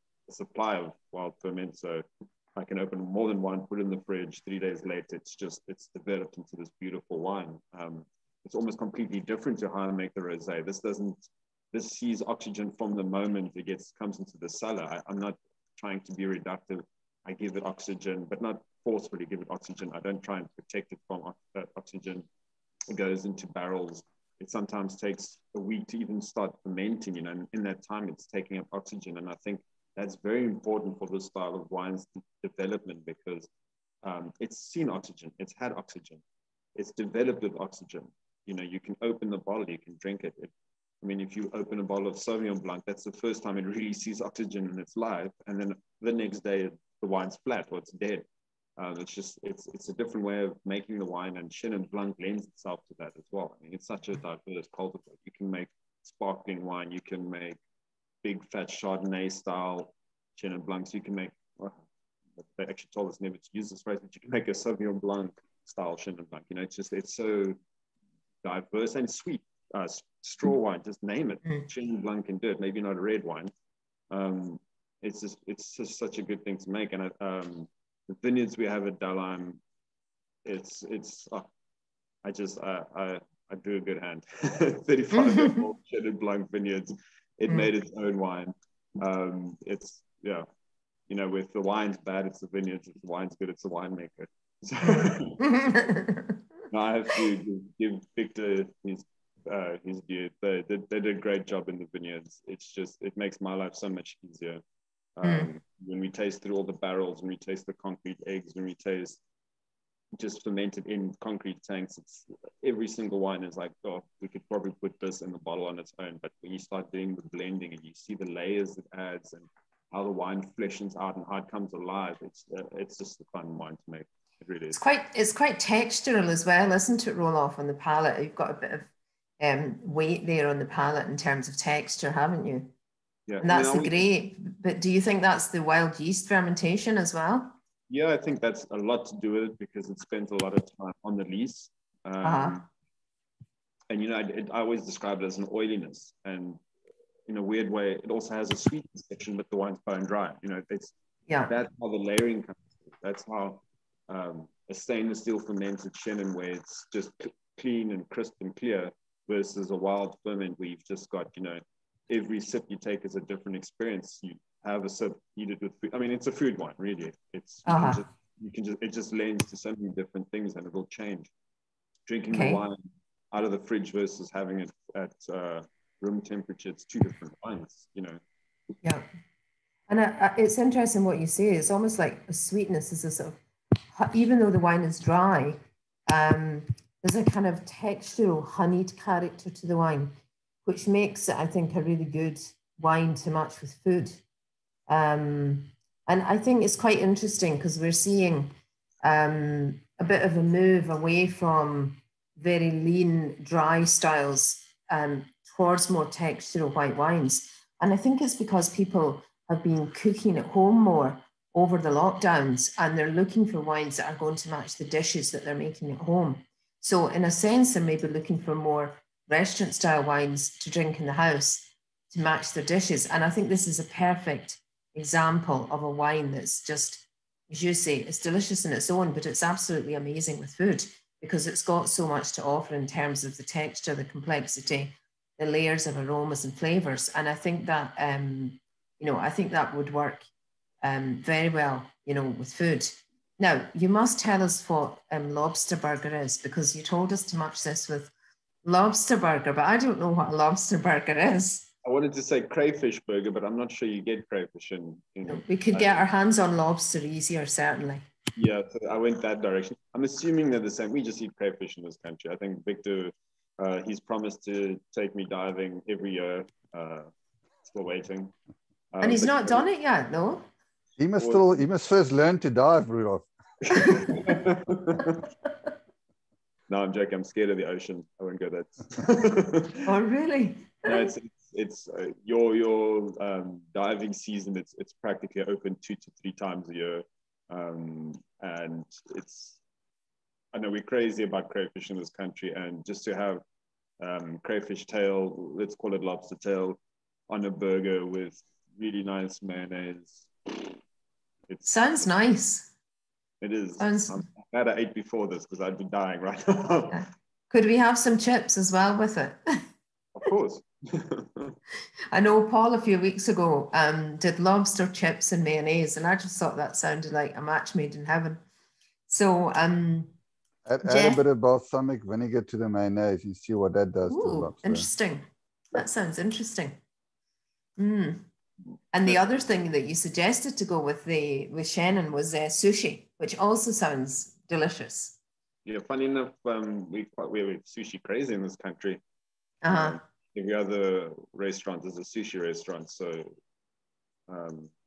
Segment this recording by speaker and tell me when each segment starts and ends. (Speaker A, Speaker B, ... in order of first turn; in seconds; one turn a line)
Speaker A: 0.3-22.3
Speaker A: 22.9-33.5
Speaker A: 34.0-36.2
Speaker A: 36.8-48.2
Speaker A: 48.8-57.6
Speaker A: 58.2-61.8
Speaker A: 62.4-67.6
Speaker A: 68.4-73.5
Speaker A: 74.1-79.6
Speaker A: 80.4-81.4
Speaker A: 82.2-90.5
Speaker B: 85.1-85.6
Speaker A: 91.1-95.5
Speaker B: 94.8-96.4
Speaker A: 96.7-104.6
Speaker A: 105.2-109.2
Speaker B: 105.2-105.5
Speaker A: 110.1-124.8
Speaker B: 124.7-128.9
Speaker B: 129.4-132.7
Speaker A: 133.3-134.1
Speaker B: 133.4-137.6
Speaker A: 137.9-142.6
Speaker B: 142.2-142.6
Speaker A: 143.9-146.6
Speaker A: 147.3-150.9
Speaker B: 151.3-151.5
Speaker A: 151.5-171.3
Speaker B: 167.7-168.0
Speaker A: 172.1-178.2
Speaker B: 172.3-172.6
Speaker B: 179.9-183.4
Speaker B: 183.9-194.2
Speaker B: 194.9-240.3
Speaker B: 240.8-248.1
Speaker B: 248.6-251.7
Speaker A: 251.8-256.0
Speaker B: 255.3-258.1
Speaker A: 258.4-267.1
Speaker A: 267.6-268.3
Speaker A: 268.9-269.6
Speaker B: 269.0-270.5
Speaker C: 271.0-273.3
Speaker A: 271.2-271.5
Speaker A: 273.7-275.3
Speaker A: 276.7-279.9
Speaker B: 279.9-281.1
Speaker A: 280.9-289.6
Speaker A: 290.5-293.4
Speaker A: 294.0-300.8
Speaker A: 301.5-302.1
Speaker B: 301.6-302.7
Speaker A: 303.4-307.0
Speaker B: 303.8-304.2
Speaker B: 306.9-309.6
Speaker A: 310.1-311.6
Speaker B: 312.1-318.4
Speaker B: 319.1-320.1
Speaker C: 320.6-324.9
Speaker B: 320.9-321.2
Speaker B: 324.1-326.8
Speaker B: 327.8-328.3
Speaker B: 328.9-335.2
Speaker A: 335.6-339.0
Speaker B: 339.6-340.0
Speaker A: 339.7-343.3
Speaker A: 344.3-344.7